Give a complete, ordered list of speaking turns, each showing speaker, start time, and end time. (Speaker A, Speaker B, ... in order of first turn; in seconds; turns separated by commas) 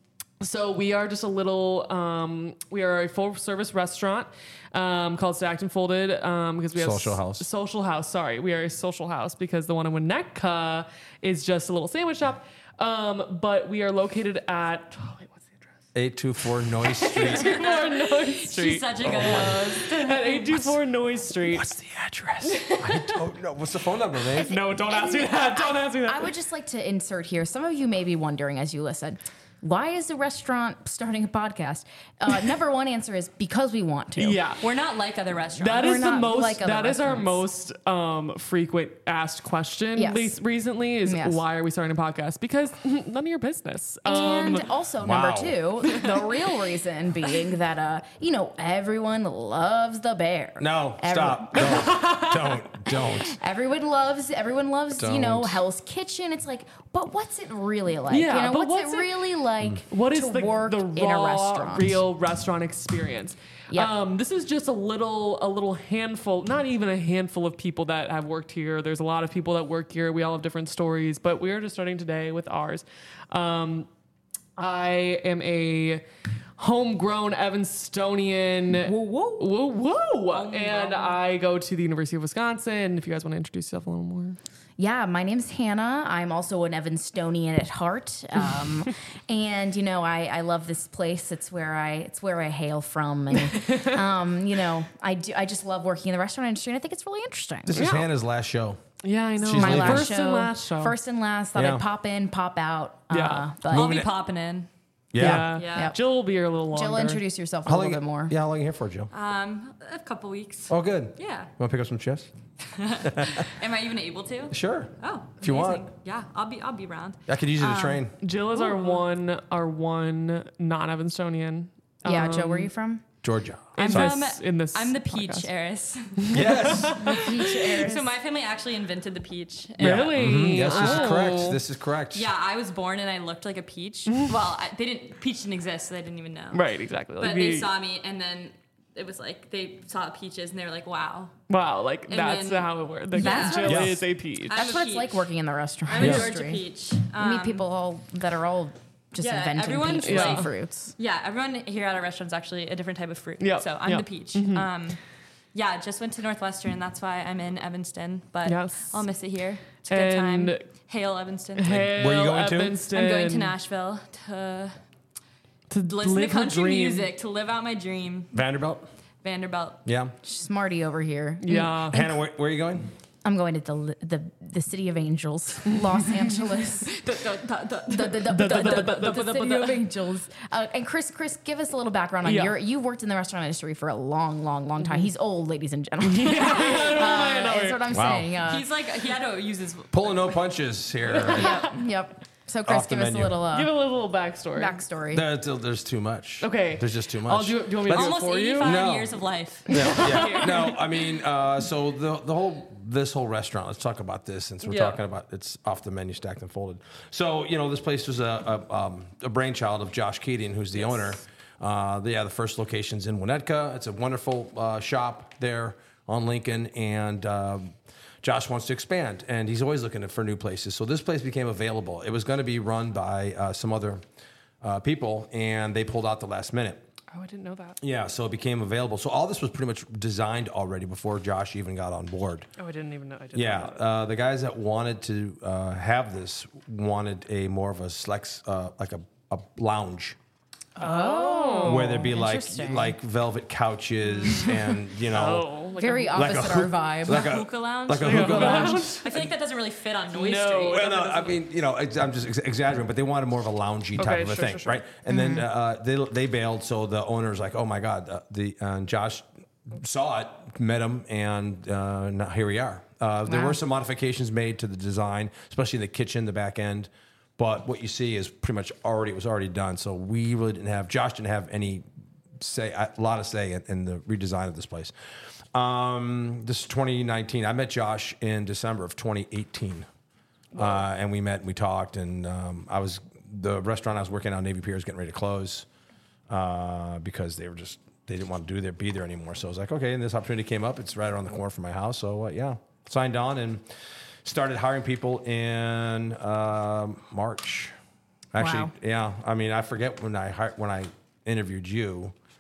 Speaker A: 0.4-15.6, Speaker B: 6.8-7.5, Speaker B: 15.9-17.6, Speaker A: 16.8-23.2, Speaker C: 17.2-20.8, Speaker B: 19.0-19.7, Speaker B: 21.8-24.6, Speaker D: 24.3-34.4, Speaker A: 24.4-26.3, Speaker A: 34.2-34.6, Speaker C: 34.6-36.0, Speaker A: 35.6-44.7, Speaker D: 35.7-37.5, Speaker D: 40.0-40.3, Speaker D: 41.0-41.4, Speaker D: 44.0-52.0, Speaker B: 45.0-45.6, Speaker B: 50.6-53.4, Speaker A: 51.6-52.4, Speaker D: 52.9-62.0, Speaker B: 54.9-55.6, Speaker A: 58.1-59.2, Speaker A: 59.8-73.9, Speaker A: 74.6-76.0, Speaker A: 76.6-84.4, Speaker D: 78.7-79.5, Speaker C: 80.3-81.2, Speaker D: 84.8-97.8, Speaker B: 97.7-98.8, Speaker A: 97.8-98.1, Speaker A: 99.0-101.0, Speaker B: 99.4-100.2, Speaker D: 99.5-104.0, Speaker B: 101.6-101.8, Speaker A: 103.1-103.5, Speaker C: 103.7-104.7, Speaker B: 103.7-104.1, Speaker B: 105.1-105.5, Speaker A: 105.2-107.2, Speaker D: 105.3-106.0, Speaker C: 105.5-106.0, Speaker D: 106.7-108.3, Speaker B: 107.7-109.1, Speaker C: 109.1-111.5, Speaker B: 110.7-112.3, Speaker C: 112.7-119.0, Speaker B: 113.0-113.5, Speaker B: 114.5-115.8, Speaker B: 117.3-118.1, Speaker A: 118.2-122.7, Speaker D: 122.0-123.0, Speaker B: 123.2-124.2, Speaker A: 123.8-125.5, Speaker C: 123.8-131.4, Speaker A: 126.2-127.5, Speaker B: 126.3-127.1, Speaker D: 127.1-128.0, Speaker A: 129.8-131.6, Speaker B: 129.8-132.3, Speaker C: 132.1-136.6, Speaker A: 136.5-137.7, Speaker C: 137.2-141.3, Speaker A: 141.5-144.7, Speaker C: 142.1-143.9, Speaker D: 143.1-144.0, Speaker B: 143.7-144.0, Speaker C: 144.5-145.3, Speaker D: 144.5-150.9, Speaker C: 145.8-147.7, Speaker B: 146.0-146.3, Speaker C: 149.2-155.0, Speaker A: 150.1-150.5, Speaker A: 153.4-154.7, Speaker C: 155.5-161.9, Speaker A: 158.5-159.0, Speaker A: 159.9-160.7, Speaker A: 161.6-163.6, Speaker B: 161.7-162.8, Speaker C: 162.9-164.8, Speaker A: 165.7-167.1, Speaker C: 165.8-168.3, Speaker B: 168.3-168.9, Speaker C: 169.2-169.8, Speaker B: 169.8-170.1, Speaker D: 170.2-172.2, Speaker A: 171.4-172.0, Speaker B: 171.9-172.9, Speaker D: 173.2-177.2, Speaker C: 176.9-179.9, Speaker D: 177.9-188.7, Speaker A: 178.2-179.4, Speaker A: 182.2-182.6, Speaker A: 186.0-187.8, Speaker C: 186.4-187.0, Speaker B: 187.9-188.3, Speaker C: 188.4-190.4, Speaker B: 189.9-191.7, Speaker A: 191.1-191.4, Speaker C: 191.2-191.8, Speaker D: 191.3-193.8, Speaker B: 192.7-193.4, Speaker A: 193.5-194.8, Speaker D: 194.6-195.3, Speaker B: 195.1-199.1, Speaker A: 196.4-198.8, Speaker C: 197.8-200.4, Speaker B: 199.7-224.0, Speaker A: 199.7-200.8, Speaker A: 204.7-205.0, Speaker B: 224.6-226.8, Speaker A: 227.1-227.8, Speaker B: 227.8-232.5, Speaker A: 232.6-233.8, Speaker B: 233.3-240.2, Speaker D: 240.8-243.0, Speaker A: 240.8-242.1, Speaker B: 241.7-245.5, Speaker A: 244.2-246.6, Speaker D: 245.8-247.3, Speaker B: 246.1-249.2, Speaker C: 247.0-251.4, Speaker A: 248.0-249.2, Speaker A: 250.1-250.9, Speaker B: 250.7-271.8, Speaker A: 253.9-254.8, Speaker D: 255.1-255.5, Speaker D: 263.3-263.6, Speaker B: 272.4-274.9, Speaker B: 275.5-279.9, Speaker A: 280.6-280.8, Speaker B: 280.6-285.7, Speaker B: 286.3-293.6, Speaker B: 294.2-297.7, Speaker B: 298.3-302.1, Speaker D: 298.4-298.7